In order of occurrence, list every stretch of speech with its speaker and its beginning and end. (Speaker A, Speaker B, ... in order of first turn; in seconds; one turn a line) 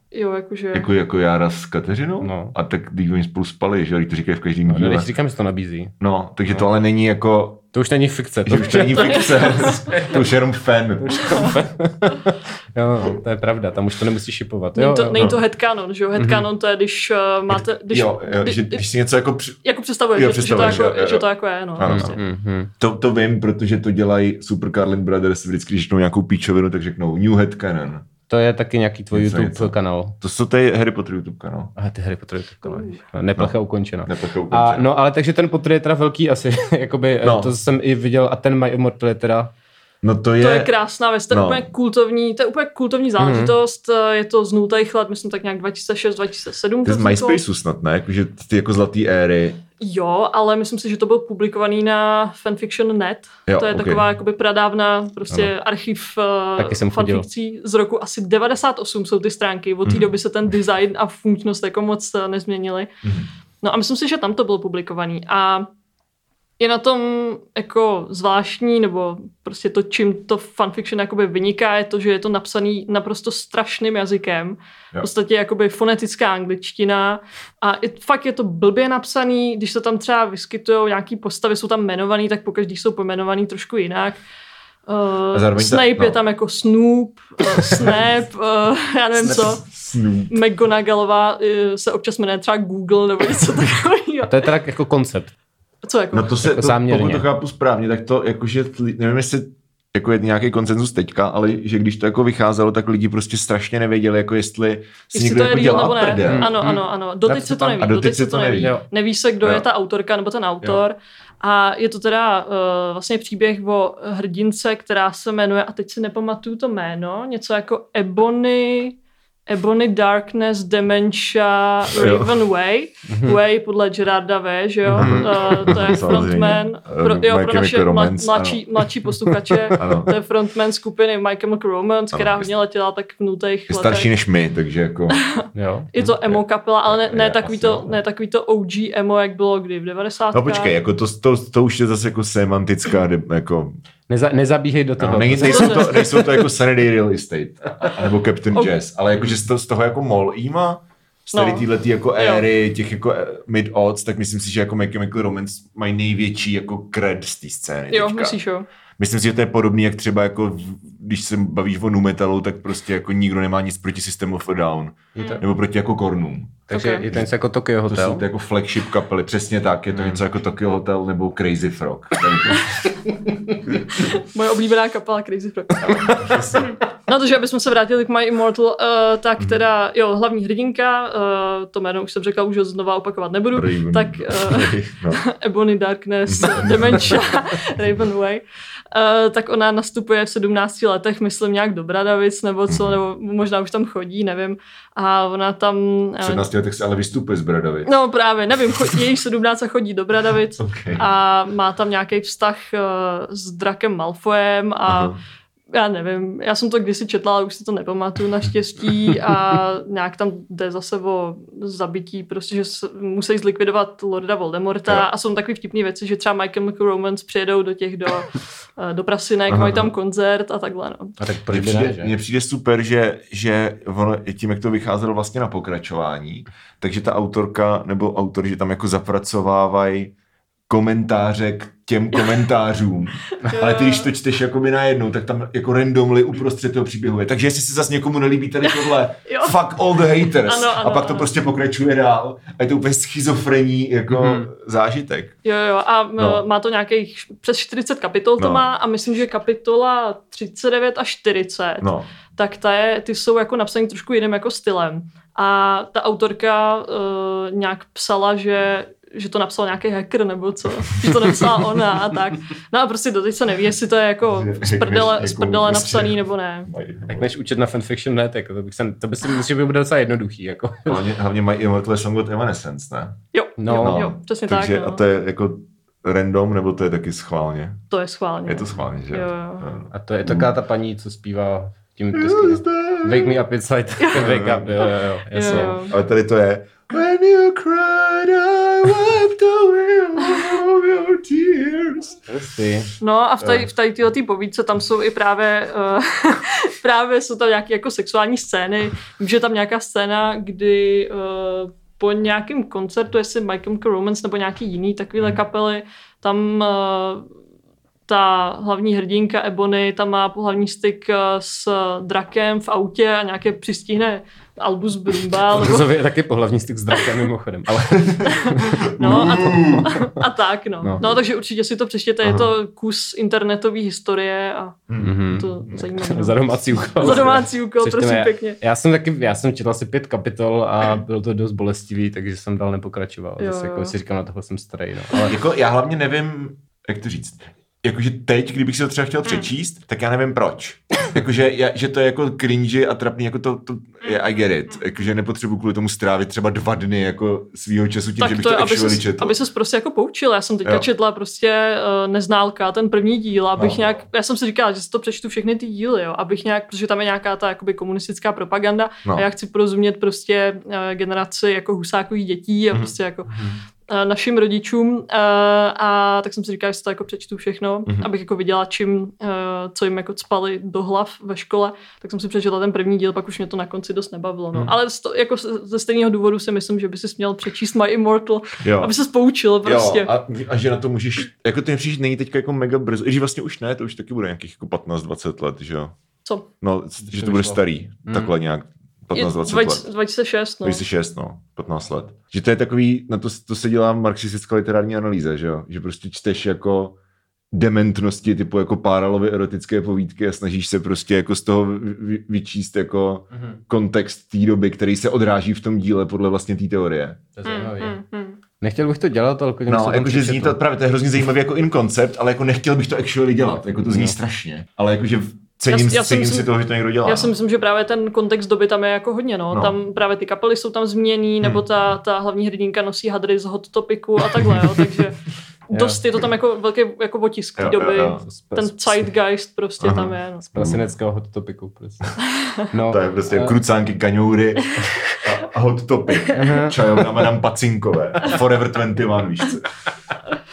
Speaker A: 0.1-0.9
Speaker B: 0.7-5.1
Speaker C: 2.2-2.5
Speaker C: 4.7-5.9
Speaker B: 6.0-7.6
Speaker C: 7.7-10.2
Speaker B: 8.4-11.6
Speaker A: 9.0-9.9
Speaker C: 11.0-15.2
Speaker A: 14.8-18.8
Speaker C: 16.2-16.5
Speaker B: 17.5-19.6
Speaker A: 19.6-22.2
Speaker B: 20.1-22.2
Speaker C: 21.8-22.7
Speaker B: 22.8-28.1
Speaker C: 28.3-30.2
Speaker B: 29.1-31.7
Speaker C: 31.8-39.5
Speaker A: 32.6-33.0
Speaker B: 33.4-34.9
Speaker B: 37.2-37.5
Speaker B: 40.0-40.7
Speaker A: 40.4-47.4
Speaker B: 41.3-41.7
Speaker C: 43.2-43.5
Speaker B: 46.9-49.6
Speaker A: 49.8-62.9
Speaker B: 53.5-54.0
Speaker C: 56.6-57.3
Speaker B: 59.8-60.1
Speaker B: 63.0-63.3
Speaker A: 63.6-65.7
Speaker A: 66.6-84.2
Speaker A: 84.9-89.6
Speaker B: 85.3-86.2
Speaker B: 89.2-90.4
Speaker A: 90.3-94.5
Speaker C: 94.3-95.3
Speaker A: 95.8-96.3
Speaker B: 96.1-106.6
Speaker C: 96.4-97.3
Speaker A: 105.1-134.1
Speaker C: 106.3-107.9
Speaker B: 107.8-108.8
Speaker C: 108.6-108.8
Speaker B: 121.9-122.3
Speaker C: 123.1-123.4
Speaker C: 124.9-126.0
Speaker B: 125.0-128.7
Speaker C: 129.5-129.9
Speaker B: 129.8-130.2
Speaker B: 132.1-132.5
Speaker B: 133.7-135.2
Speaker A: 135.2-140.7
Speaker C: 135.6-135.9
Speaker B: 136.0-138.0
Speaker B: 140.3-143.8
Speaker C: 144.1-146.1
Speaker B: 145.0-158.4
Speaker A: 145.4-146.1
Speaker A: 151.3-151.7
Speaker A: 152.2-152.4
Speaker A: 157.9-158.7
Speaker B: 159.0-167.3
Speaker C: 165.2-165.4
Speaker A: 166.7-167.1
Speaker C: 166.7-168.2
Speaker B: 167.8-172.9
Speaker C: 169.9-170.2
Speaker C: 172.2-172.4
Speaker C: 173.1-173.6
Speaker A: 173.9-196.4
Speaker C: 175.8-176.8
Speaker B: 175.8-176.7
Speaker B: 183.6-185.2
Speaker B: 186.3-187.3
Speaker B: 192.7-193.0
Speaker B: 196.2-197.9
Speaker A: 197.9-205.1
Speaker B: 200.6-201.1
Speaker B: 204.9-205.2
Speaker A: 205.7-221.2
Speaker B: 219.5-219.9
Speaker C: 221.2-222.1
Speaker B: 221.5-230.1
Speaker B: 230.7-245.4
Speaker A: 233.4-234.1
Speaker A: 238.7-239.6
Speaker A: 240.2-241.3
Speaker C: 244.1-244.5
Speaker A: 245.4-266.7
Speaker B: 246.2-246.4
Speaker B: 248.4-248.7
Speaker B: 251.8-252.1
Speaker B: 261.1-261.5
Speaker B: 264.3-267.3
Speaker C: 267.1-271.1
Speaker B: 270.9-273.2
Speaker A: 273.3-275.0
Speaker C: 273.6-274.1
Speaker B: 273.8-277.8
Speaker A: 277.9-279.7
Speaker B: 278.5-280.5
Speaker C: 279.9-285.9
Speaker B: 282.1-283.4
Speaker A: 284.0-284.2
Speaker B: 284.1-284.9
Speaker A: 285.3-285.9
Speaker B: 285.5-292.2
Speaker C: 292.3-292.9
Speaker A: 293.0-307.3
Speaker A: 308.1-315.9
Speaker C: 315.6-319.3
Speaker A: 318.2-326.4
Speaker B: 318.8-320.1
Speaker B: 322.2-322.5
Speaker B: 324.9-325.2
Speaker C: 325.0-335.3
Speaker A: 327.0-328.6
Speaker B: 327.0-327.4
Speaker A: 333.4-333.9
Speaker B: 335.3-349.4
Speaker A: 348.2-363.3
Speaker B: 353.6-353.9
Speaker B: 362.7-363.6
Speaker A: 363.9-380.1
Speaker B: 378.6-378.9
Speaker B: 379.6-385.9
Speaker B: 386.6-389.9
Speaker C: 387.1-388.3
Speaker A: 389.1-390.8
Speaker B: 390.6-397.0
Speaker B: 397.5-407.2
Speaker C: 403.3-403.6
Speaker C: 407.4-408.0
Speaker A: 407.4-408.4
Speaker C: 408.6-410.6
Speaker B: 409.7-417.3
Speaker C: 413.9-414.1
Speaker A: 415.7-416.5
Speaker A: 417.0-430.4
Speaker B: 424.4-424.7
Speaker C: 425.7-426.0
Speaker B: 427.6-428.2
Speaker C: 428.2-429.1
Speaker B: 429.8-430.8
Speaker C: 430.4-433.6
Speaker A: 432.2-432.7
Speaker B: 432.9-439.7
Speaker C: 436.4-437.0